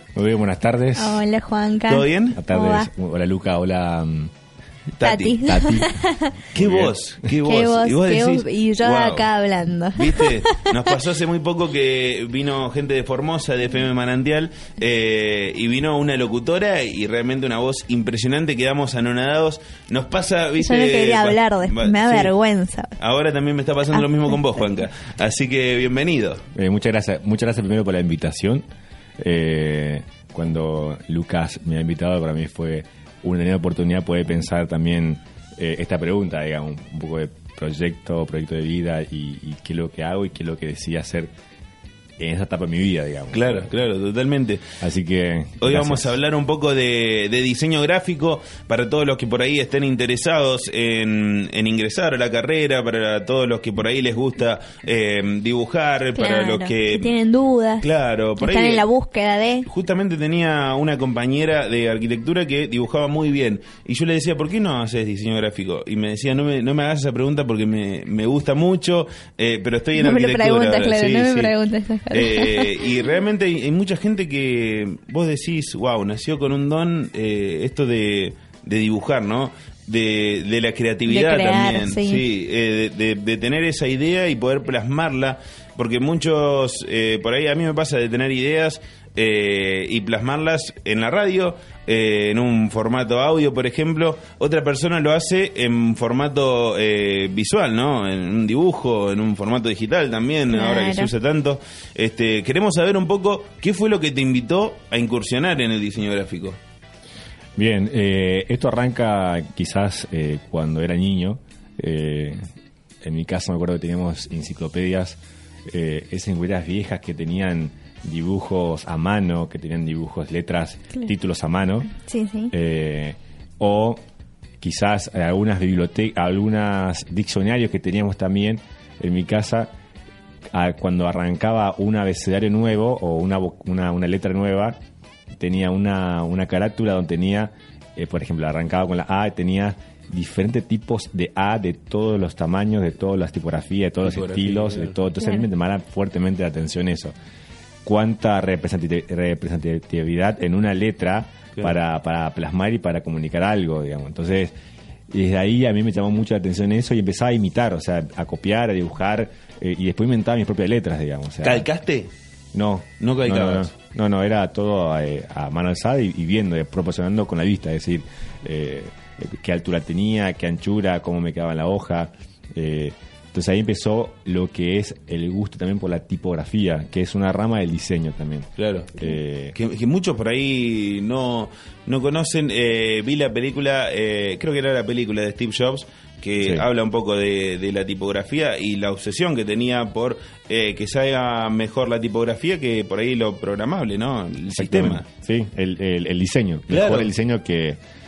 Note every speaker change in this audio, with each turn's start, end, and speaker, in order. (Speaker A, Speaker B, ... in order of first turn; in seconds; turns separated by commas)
Speaker A: 0.1-1.3, Speaker B: 1.0-2.9, Speaker C: 1.9-2.4, Speaker A: 2.4-4.3, Speaker C: 5.0-5.4, Speaker B: 5.0-6.4, Speaker A: 5.4-5.9, Speaker C: 6.5-9.3, Speaker A: 6.5-7.0, Speaker B: 7.5-10.8, Speaker C: 9.9-22.3, Speaker B: 20.6-23.0, Speaker C: 23.0-26.5, Speaker A: 26.5-28.6, Speaker A: 29.2-41.3, Speaker A: 42.2-43.7, Speaker C: 43.3-44.8, Speaker A: 44.8-46.2, Speaker C: 45.6-57.1, Speaker B: 56.2-57.9, Speaker C: 57.8-58.8, Speaker B: 58.4-59.7, Speaker C: 59.6-71.5, Speaker B: 70.0-72.9, Speaker C: 72.1-106.6, Speaker B: 81.1-82.2, Speaker B: 100.5-101.1, Speaker A: 107.6-112.4, Speaker A: 113.0-121.9, Speaker B: 122.0-122.5, Speaker A: 122.5-124.0, Speaker A: 124.6-129.7, Speaker A: 130.5-134.8, Speaker A: 135.4-147.2, Speaker C: 144.0-145.0, Speaker A: 147.8-154.5, Speaker A: 155.1-161.7, Speaker C: 161.4-162.1, Speaker A: 162.5-179.6, Speaker C: 163.0-163.7, Speaker C: 178.6-178.9, Speaker C: 179.6-195.1, Speaker A: 186.4-186.7, Speaker A: 194.5-197.8, Speaker C: 196.7-197.1